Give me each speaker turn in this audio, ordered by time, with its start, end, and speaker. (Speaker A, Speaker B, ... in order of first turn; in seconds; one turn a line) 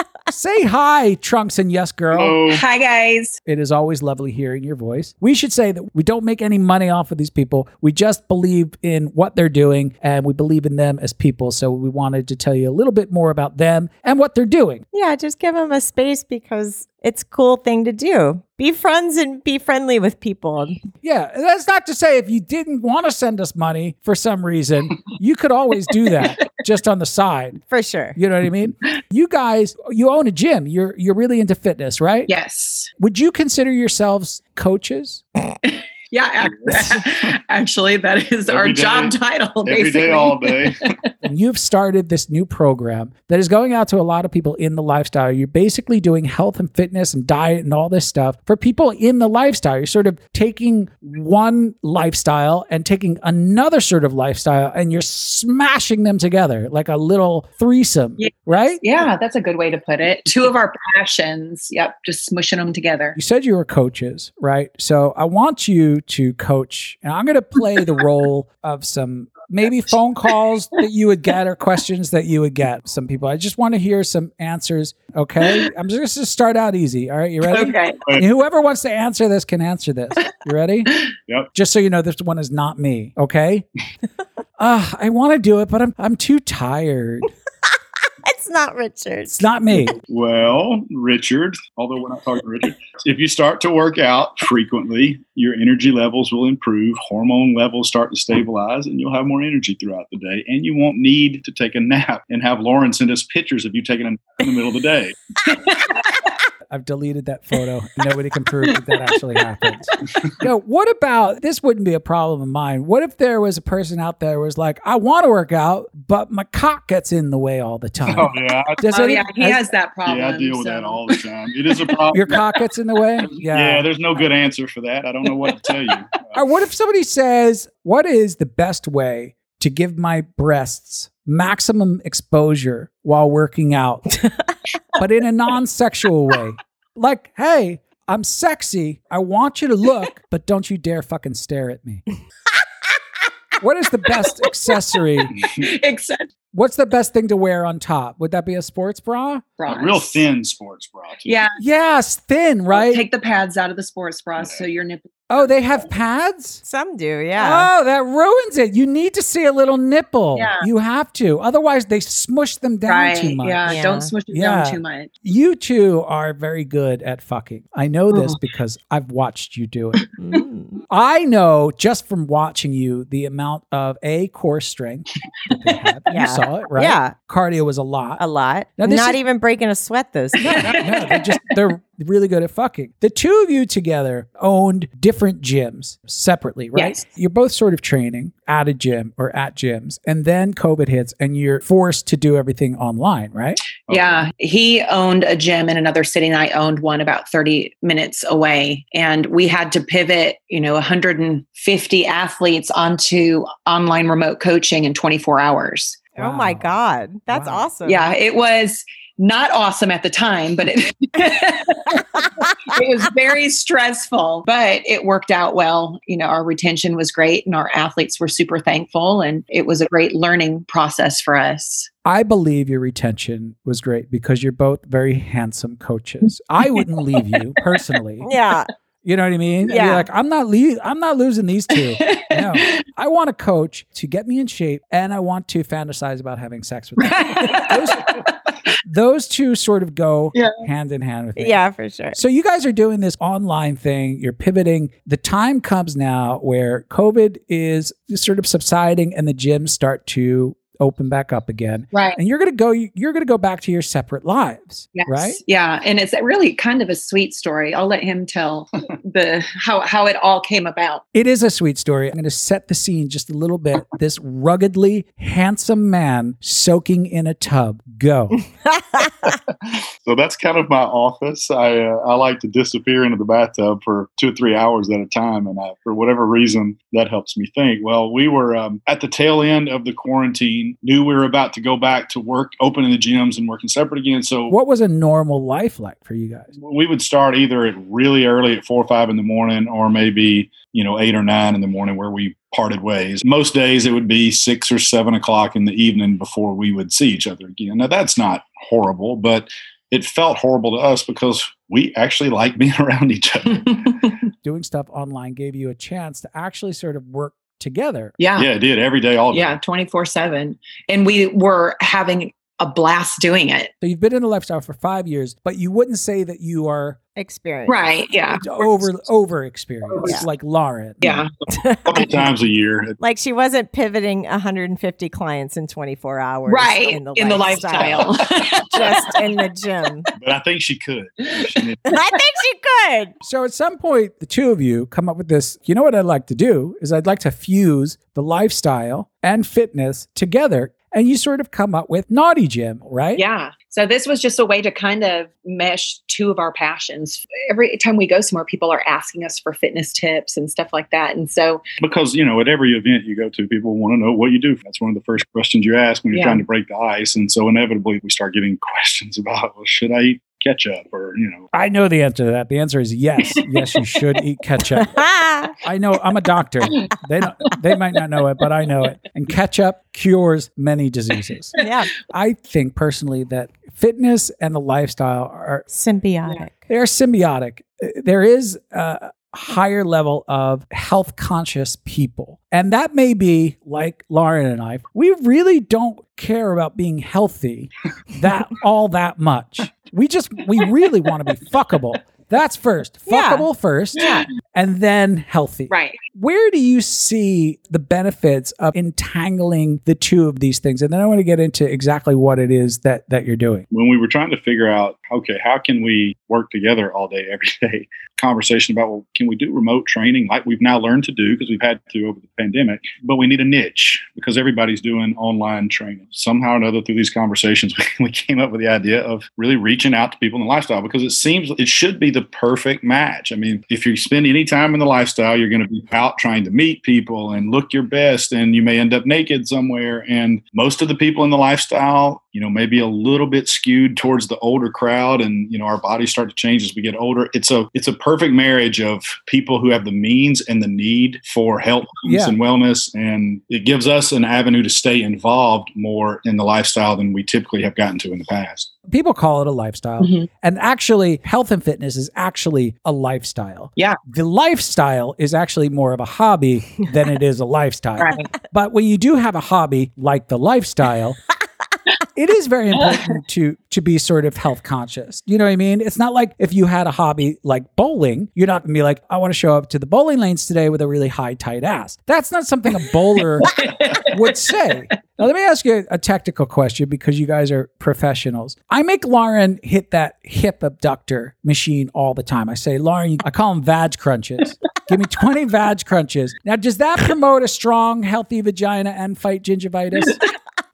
Speaker A: 0.3-2.4
Speaker B: 2.1-2.6
Speaker C: 2.5-3.4
Speaker A: 3.4-14.8
Speaker D: 14.9-20.8
Speaker A: 21.0-27.6
Speaker D: 27.7-28.1
Speaker A: 28.1-32.3
Speaker C: 32.3-32.9
Speaker A: 33.0-35.2
Speaker C: 35.7-40.9
Speaker B: 36.5-37.0
Speaker B: 38.5-40.8
Speaker A: 41.2-58.8
Speaker C: 58.2-63.2
Speaker A: 63.1-80.9
Speaker C: 77.5-78.0
Speaker A: 81.5-83.7
Speaker A: 84.6-87.3
Speaker D: 88.2-89.4
Speaker A: 89.3-89.9
Speaker B: 90.1-105.2
Speaker C: 105.5-106.2
Speaker A: 106.7-109.9
Speaker C: 108.7-110.0
Speaker A: 110.4-119.7
Speaker B: 118.1-118.8
Speaker C: 118.8-122.6
Speaker B: 120.0-122.2
Speaker A: 122.1-123.9
Speaker B: 123.4-126.1
Speaker C: 125.2-125.9
Speaker A: 126.3-134.1
Speaker A: 135.0-142.0
Speaker A: 143.6-145.3
Speaker C: 145.6-146.3
Speaker A: 146.5-149.6
Speaker C: 149.6-150.3
Speaker B: 149.7-151.3
Speaker C: 151.2-151.6
Speaker A: 151.6-153.1
Speaker C: 152.7-155.1
Speaker B: 154.4-154.6
Speaker A: 155.3-156.6
Speaker D: 156.6-157.7
Speaker A: 157.4-170.0
Speaker C: 160.3-160.7
Speaker C: 162.9-165.1
Speaker D: 163.7-164.1
Speaker C: 168.1-168.4
Speaker D: 170.2-170.8
Speaker A: 170.9-178.2
Speaker C: 175.5-175.8
Speaker D: 176.1-177.1
Speaker D: 178.2-180.8
Speaker A: 178.8-179.2
Speaker A: 180.4-193.6
Speaker C: 180.8-181.3
Speaker C: 186.7-187.1
Speaker C: 193.9-206.0
Speaker B: 193.9-194.3
Speaker D: 206.2-208.1
Speaker A: 206.2-206.7
Speaker A: 207.3-207.7
Speaker C: 207.8-221.9
Speaker A: 222.0-228.3
Speaker C: 227.2-227.6
Speaker D: 228.2-228.7
Speaker A: 229.0-238.1
Speaker C: 229.7-230.0
Speaker D: 229.7-230.0
Speaker C: 231.7-232.8
Speaker C: 237.0-238.2
Speaker A: 238.8-255.4
Speaker D: 241.4-242.2
Speaker C: 251.9-252.2
Speaker C: 254.9-261.0
Speaker A: 261.1-268.4
Speaker D: 268.8-269.1
Speaker B: 270.0-284.5
Speaker A: 284.5-286.5
Speaker B: 286.6-303.9
Speaker C: 303.5-304.1
Speaker A: 304.4-308.1
Speaker C: 308.2-308.5
Speaker B: 308.4-309.5
Speaker C: 309.3-313.7
Speaker A: 313.8-317.0
Speaker D: 317.2-317.9
Speaker C: 317.7-318.6
Speaker A: 318.3-321.0
Speaker D: 320.0-320.3
Speaker C: 321.0-321.3
Speaker D: 321.5-322.1
Speaker B: 321.9-323.0
Speaker D: 323.0-328.1
Speaker C: 326.5-329.2
Speaker D: 328.7-330.1
Speaker B: 330.2-331.8
Speaker D: 331.9-333.1
Speaker A: 333.2-343.2
Speaker C: 343.1-351.6
Speaker B: 351.8-361.5
Speaker C: 356.1-356.4
Speaker A: 361.5-365.0
Speaker D: 364.9-365.5
Speaker A: 365.6-375.6
Speaker D: 371.6-371.9
Speaker D: 375.7-376.6
Speaker A: 376.7-403.6
Speaker D: 393.1-394.3
Speaker C: 395.7-396.0
Speaker B: 403.7-448.7
Speaker A: 442.0-442.4
Speaker A: 448.9-461.2
Speaker C: 450.0-450.3
Speaker C: 458.0-458.3
Speaker A: 462.1-490.2
Speaker C: 462.7-463.2
Speaker C: 472.7-474.4